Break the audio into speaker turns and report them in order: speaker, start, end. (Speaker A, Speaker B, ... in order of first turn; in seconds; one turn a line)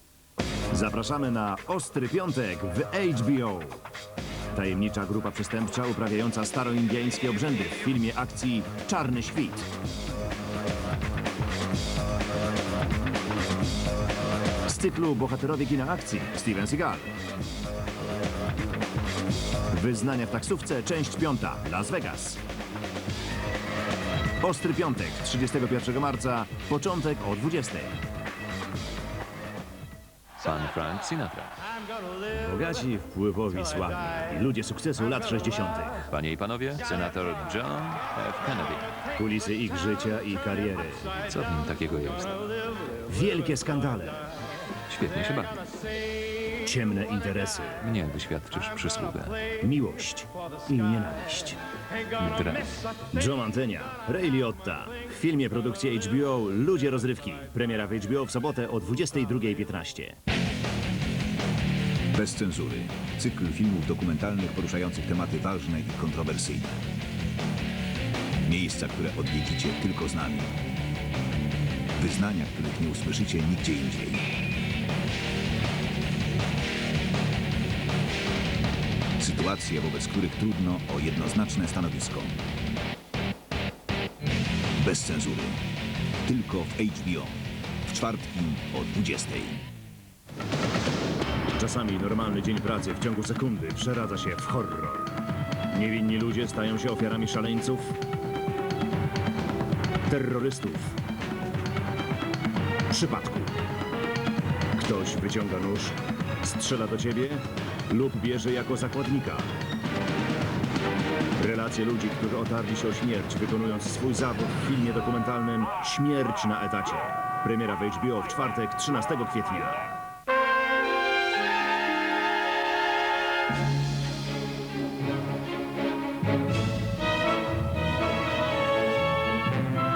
Speaker A: 0.7-3.8
Speaker A: 4.5-9.7
Speaker A: 14.7-17.1
Speaker A: 19.7-22.4
Speaker A: 24.4-28.0
Speaker B: 30.4-31.5
Speaker A: 32.3-36.0
Speaker B: 36.1-38.9
Speaker A: 39.1-41.2
Speaker B: 41.2-42.5
Speaker A: 43.0-44.3
Speaker B: 44.9-45.7
Speaker A: 46.6-47.9
Speaker B: 47.8-49.5
Speaker A: 49.5-51.6
Speaker B: 52.2-52.8
Speaker A: 53.0-60.2
Speaker C: 62.1-66.8
Speaker C: 68.4-70.5
Speaker C: 72.0-74.3
Speaker C: 79.2-82.4
Speaker C: 84.8-85.6
Speaker C: 86.2-89.6
Speaker A: 91.6-95.2
Speaker A: 95.7-98.0
Speaker A: 100.1-101.0
Speaker A: 102.9-103.5
Speaker A: 104.7-109.5
Speaker A: 111.4-119.9